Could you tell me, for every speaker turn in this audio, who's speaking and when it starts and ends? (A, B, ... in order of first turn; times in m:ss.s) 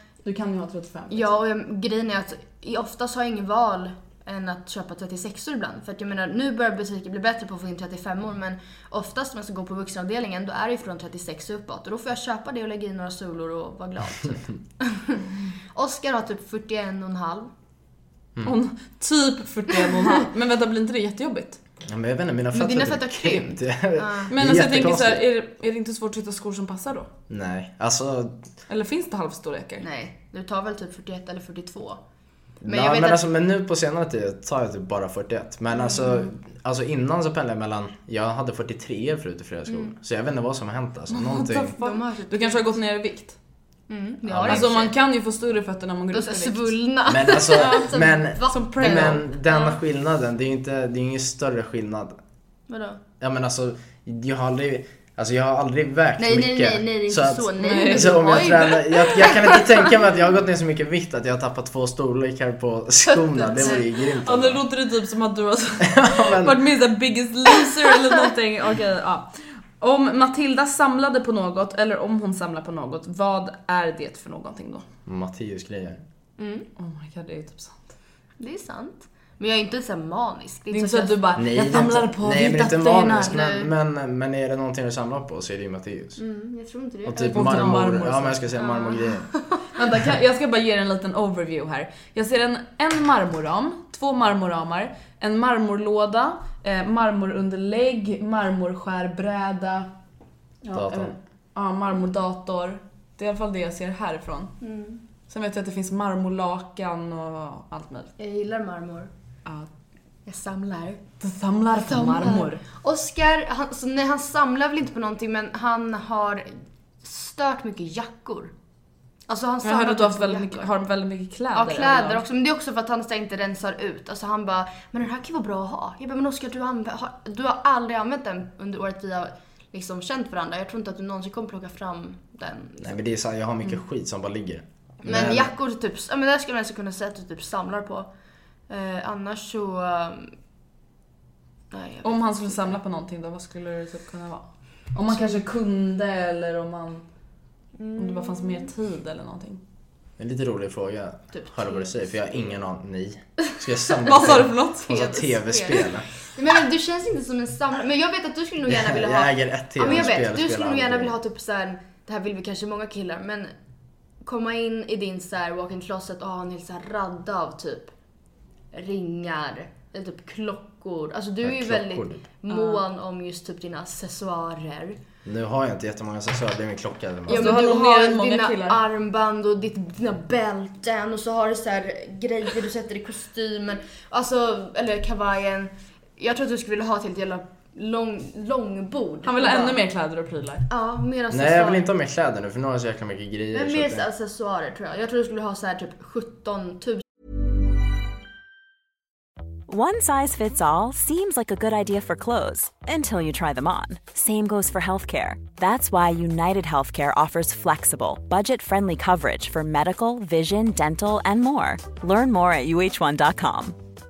0:00.2-0:01.4 A
0:01.1-0:17.5 B
0:18.4-0:21.6 A
0:21.8-0:25.2 C
0:22.5-0:24.3 B
0:24.3-0:27.1 A
0:27.3-0:28.4 C
0:28.7-0:29.8 A
0:29.8-0:32.0 B
0:32.6-0:33.2 B
0:32.6-0:41.7 C
0:41.1-0:43.4 A
0:41.8-0:42.6 B
0:43.9-0:44.9 B
0:44.2-0:44.8 C
0:44.4-0:46.7 A
0:46.1-0:49.8 B
0:47.1-0:52.2 C
0:47.5-0:49.2 A
0:52.7-0:53.0 B
0:53.2-1:04.6 C
0:56.2-0:59.9 B
0:57.6-0:58.7 A
1:03.1-1:03.8 B
1:04.2-1:14.8 A
1:05.8-1:06.6 C
1:15.0-1:16.0 C
1:16.4-1:16.7 B
1:16.8-1:17.9 A
1:18.4-1:21.3 B
1:20.7-1:23.3 A
1:21.4-1:26.2 C
1:23.1-1:23.7 B
1:26.2-1:27.9 B
1:27.0-1:29.3 C
1:27.3-1:28.4 A
1:28.5-1:29.6 B
1:29.7-1:39.9 A
1:40.6-1:44.5 A
1:40.7-1:41.1 C
1:44.6-1:45.0 B
1:45.3-1:48.1 A
1:48.2-1:49.1 B
1:50.2-1:51.0 B
1:51.2-1:52.6 A
1:51.7-1:56.5 B
1:57.0-1:58.5 B
1:59.3-2:00.7 B
1:59.6-2:02.2 A
2:01.5-2:13.0 B
2:12.8-2:15.5 C
2:15.0-2:18.1 B
2:18.7-2:20.3 B
2:21.7-2:22.6 B
2:22.0-2:27.0 A
2:25.1-2:25.4 B
2:27.8-2:28.7 B
2:28.0-2:29.6 A
2:30.2-2:36.0 C
2:31.3-2:32.4 B
2:34.0-2:35.2 A
2:34.9-2:43.5 B
2:38.6-2:41.2 C
2:44.2-2:47.9 B
2:48.7-2:55.0 B
2:51.4-2:52.3 C
2:52.5-2:52.8 A
2:55.2-2:57.7 C
2:57.3-3:09.8 B
2:57.3-2:58.8 A
3:09.2-3:10.7 A
3:10.7-3:11.8 B
3:11.3-3:14.0 C
3:13.5-3:17.0 B
3:19.7-3:33.8 D